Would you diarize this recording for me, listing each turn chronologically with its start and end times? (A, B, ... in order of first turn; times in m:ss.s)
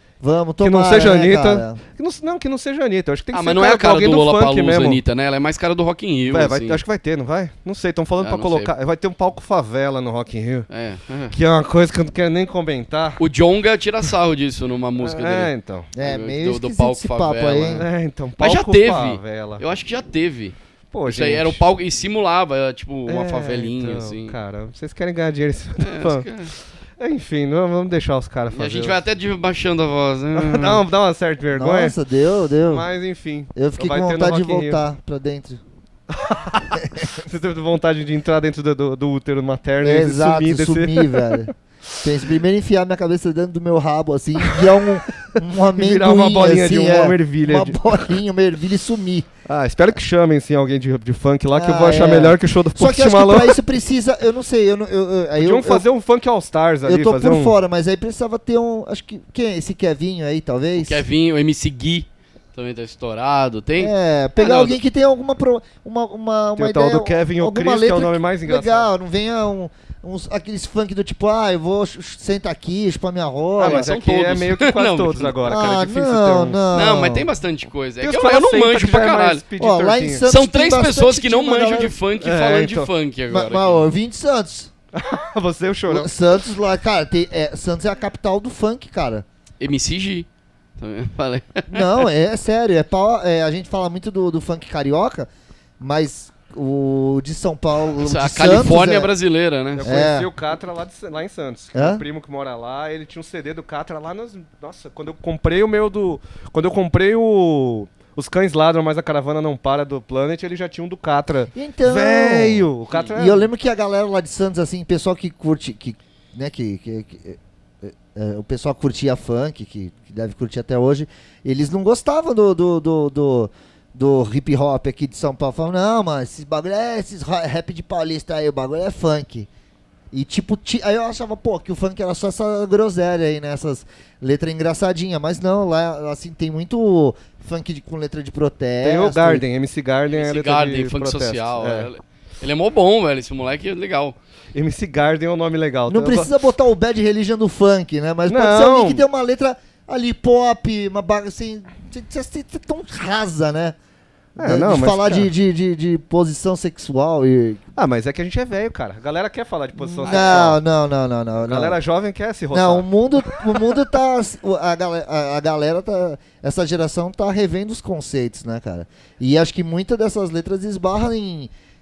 0:00.2-0:01.8 A
0:00.6-0:05.0 B
0:03.3-0:06.8 C
0:06.3-0:10.7 B
0:08.2-0:08.7 C
0:10.7-0:11.4 C
0:11.3-0:13.2 B
0:13.2-0:17.9 C
0:15.0-0:15.9 B
0:15.9-0:17.9 A
0:17.7-0:19.6 B
0:18.4-0:24.4 C
0:20.9-0:21.6 B
0:23.1-0:26.3 B
0:25.8-0:26.5 C
0:27.0-0:29.0 B
0:28.5-0:30.8 C
0:30.4-0:32.0 B
0:31.5-0:32.9 A
0:32.7-0:34.8 B
0:33.5-0:35.6 A
0:36.1-0:41.4 B
0:36.8-0:37.1 A
0:39.8-0:49.3 A
0:45.8-0:48.2 B
0:49.5-0:53.6 B
0:51.5-0:55.9 A
0:55.4-0:57.6 B
0:56.8-1:01.0 A
1:00.8-1:04.8 C
1:03.8-1:13.8 A
1:06.6-1:08.9 B
1:13.6-1:15.4 C
1:13.6-1:16.6 B
1:15.5-1:17.3 A
1:16.7-1:19.4 C
1:18.0-1:20.3 B
1:19.6-1:22.0 A
1:20.3-1:23.8 C
1:22.2-1:22.9 B
1:23.3-1:24.7 A
1:24.9-1:26.1 B
1:25.9-1:29.2 A
1:29.6-1:30.3 C
1:30.8-1:31.8 C
1:31.7-1:35.3 A
1:35.8-1:39.1 A
1:38.0-1:40.0 C
1:39.8-1:53.5 B
1:39.8-1:40.3 A
1:41.8-1:42.0 A
1:51.5-2:09.5 A
2:10.1-2:19.4 A
2:18.8-2:21.9 B
2:20.1-2:24.2 C
2:24.5-2:26.3 B
2:25.9-2:33.8 A
2:28.3-2:29.1 B
2:34.4-2:35.3 B
2:34.4-2:37.6 A
2:37.8-2:40.6 B
2:39.8-2:41.8 A
2:40.0-2:40.5 C
2:41.4-2:43.3 B
2:42.5-2:51.5 A